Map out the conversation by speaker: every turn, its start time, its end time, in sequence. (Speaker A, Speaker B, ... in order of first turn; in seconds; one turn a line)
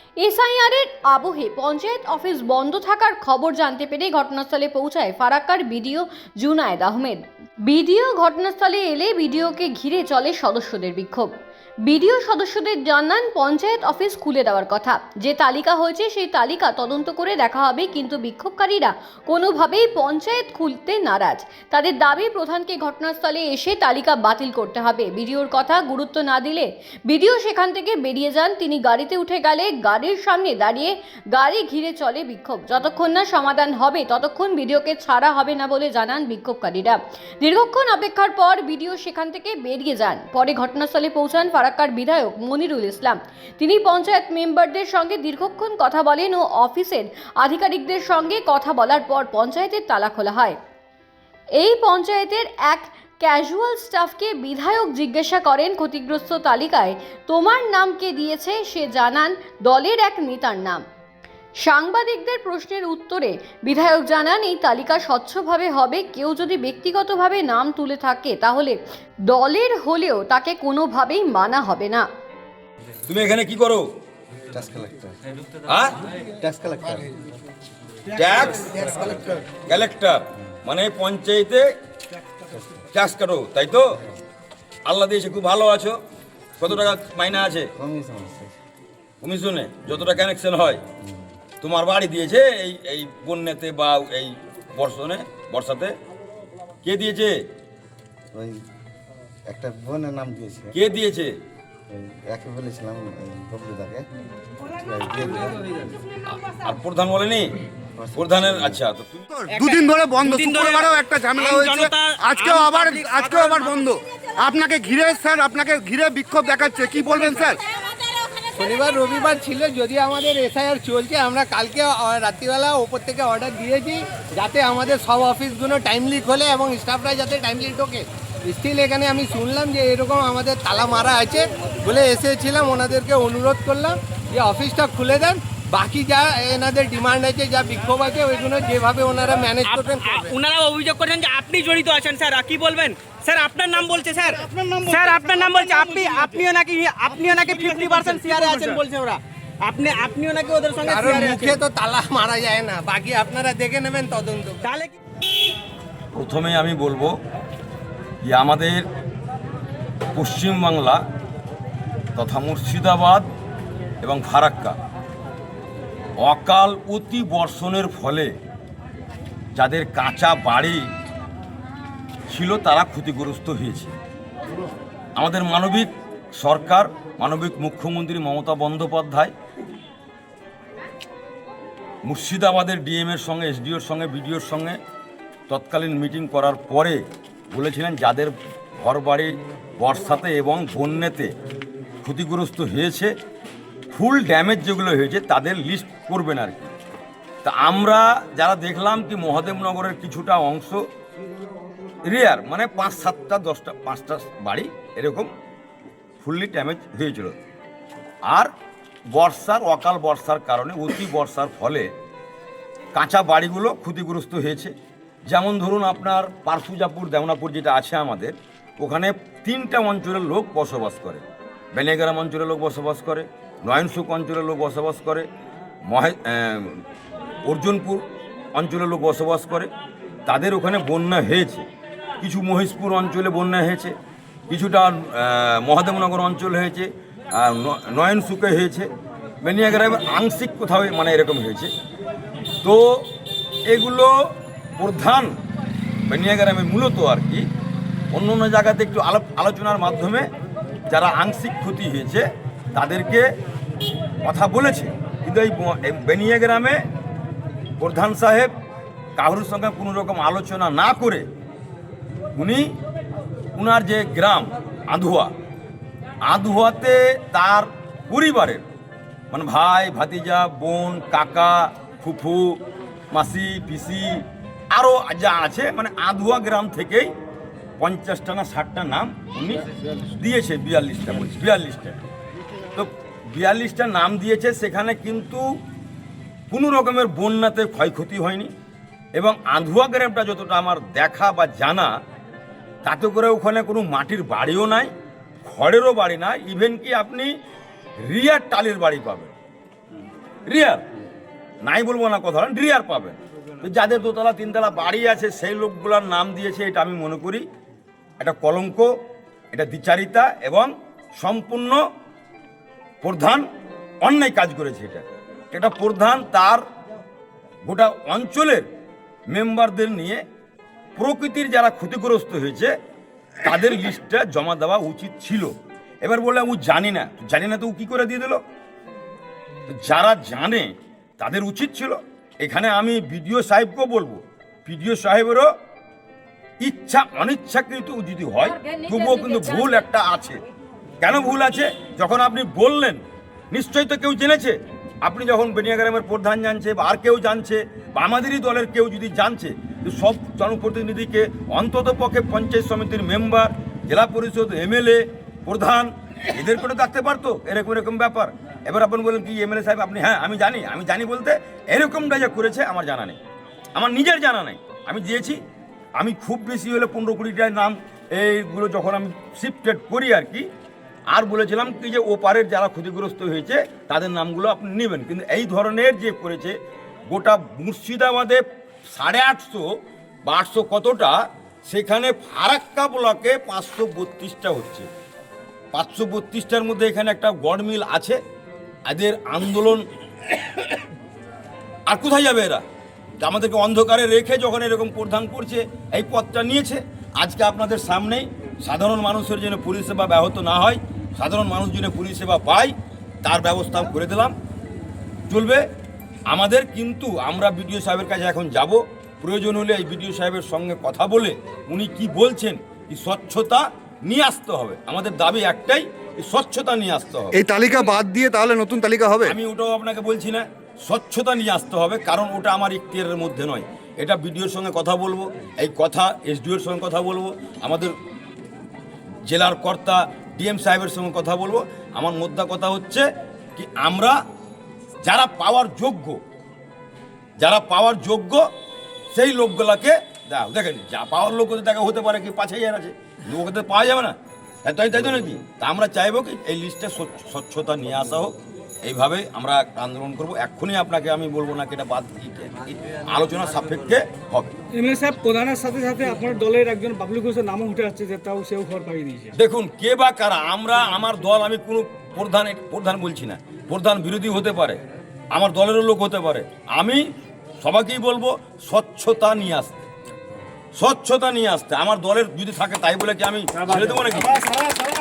Speaker A: 0.2-11.3
Speaker A: 11.8-50.5
Speaker A: 51.6-60.8
Speaker A: 61.6-72.1
Speaker B: 73.1-73.9
Speaker C: 74.5-75.2
Speaker B: 75.7-75.9
Speaker C: 76.4-77.2
Speaker B: 78.1-79.1
Speaker C: 78.6-79.2
Speaker B: 79.6-81.7
Speaker C: 82.5-82.8
Speaker B: 82.9-83.9
Speaker B: 84.8-86.0
Speaker B: 86.6-87.7
Speaker C: 87.7-88.5
Speaker B: 89.2-90.8
Speaker C: 91.0-91.3
Speaker B: 91.6-95.9
Speaker B: 96.8-97.3
Speaker C: 98.3-98.6
Speaker C: 99.5-100.8
Speaker B: 100.7-101.3
Speaker C: 101.9-104.0
Speaker C: 104.7-105.9
Speaker B: 106.3-107.5
Speaker C: 108.0-108.8
Speaker B: 108.1-109.3
Speaker D: 109.3-117.6
Speaker E: 109.5-113.8
Speaker F: 118.5-140.3
Speaker E: 139.6-151.6
Speaker D: 144.6-146.0
Speaker D: 147.7-148.8
Speaker F: 150.8-154.7
Speaker E: 154.6-154.9
Speaker B: 156.1-157.1
Speaker B: 158.2-158.8
Speaker B: 160.1-161.0
Speaker B: 162.1-163.3
Speaker B: 164.0-164.8
Speaker B: 166.2-168.3
Speaker B: 169.5-170.8
Speaker B: 172.3-173.9
Speaker B: 175.2-179.3
Speaker B: 182.0-184.8
Speaker B: 185.5-191.3
Speaker B: 192.0-193.1
Speaker B: 193.9-196.7
Speaker B: 197.4-200.8
Speaker B: 202.0-205.3
Speaker B: 206.2-207.3
Speaker B: 209.1-211.9
Speaker B: 212.9-214.7
Speaker B: 215.3-225.3
Speaker B: 225.9-226.8
Speaker B: 227.4-229.7
Speaker B: 230.2-231.7
Speaker B: 232.2-233.9
Speaker B: 234.5-238.9
Speaker B: 239.4-241.7
Speaker B: 243.7-244.1
Speaker B: 244.8-245.3
Speaker B: 246.1-247.4
Speaker B: 248.1-250.3
Speaker B: 250.9-253.2
Speaker B: 254.2-256.8
Speaker B: 257.8-258.5
Speaker B: 259.2-261.2
Speaker B: 262.3-262.6
Speaker B: 263.5-265.3
Speaker B: 266.2-268.6
Speaker B: 269.3-272.6
Speaker B: 273.1-274.2
Speaker B: 274.7-277.1
Speaker B: 277.8-282.0
Speaker B: 282.8-285.4
Speaker B: 286.5-288.5
Speaker B: 289.1-291.9
Speaker B: 292.8-294.9
Speaker B: 295.4-297.3
Speaker B: 298.0-299.3
Speaker B: 300.5-300.8
Speaker B: 301.6-307.4
Speaker B: 308.2-308.9
Speaker B: 309.5-311.8
Speaker B: 313.0-313.4
Speaker B: 314.0-316.6
Speaker B: 317.6-318.7
Speaker B: 319.3-320.2
Speaker B: 320.9-322.7
Speaker B: 323.4-328.4
Speaker B: 329.7-335.5
Speaker B: 336.6-340.4
Speaker B: 341.0-343.0
Speaker B: 343.5-363.2
Speaker B: 363.7-365.4
Speaker B: 366.0-370.4
Speaker B: 371.1-376.5
Speaker B: 377.1-379.6
Speaker B: 380.2-381.1
Speaker B: 381.6-384.9
Speaker B: 385.7-388.2
Speaker B: 388.9-390.7
Speaker B: 391.9-392.6
Speaker B: 393.2-402.7
Speaker B: 403.2-404.3
Speaker B: 405.3-405.6
Speaker B: 406.3-417.4
Speaker D: 417.3-419.3
Speaker B: 419.2-427.9
Speaker B: 429.2-433.0
Speaker B: 433.6-434.2
Speaker B: 435.0-436.2
Speaker B: 437.4-438.4
Speaker B: 439.1-454.6
Speaker G: 454.7-459.3
Speaker B: 459.3-464.8
Speaker B: 465.3-467.0
Speaker B: 467.6-469.8
Speaker B: 470.8-474.4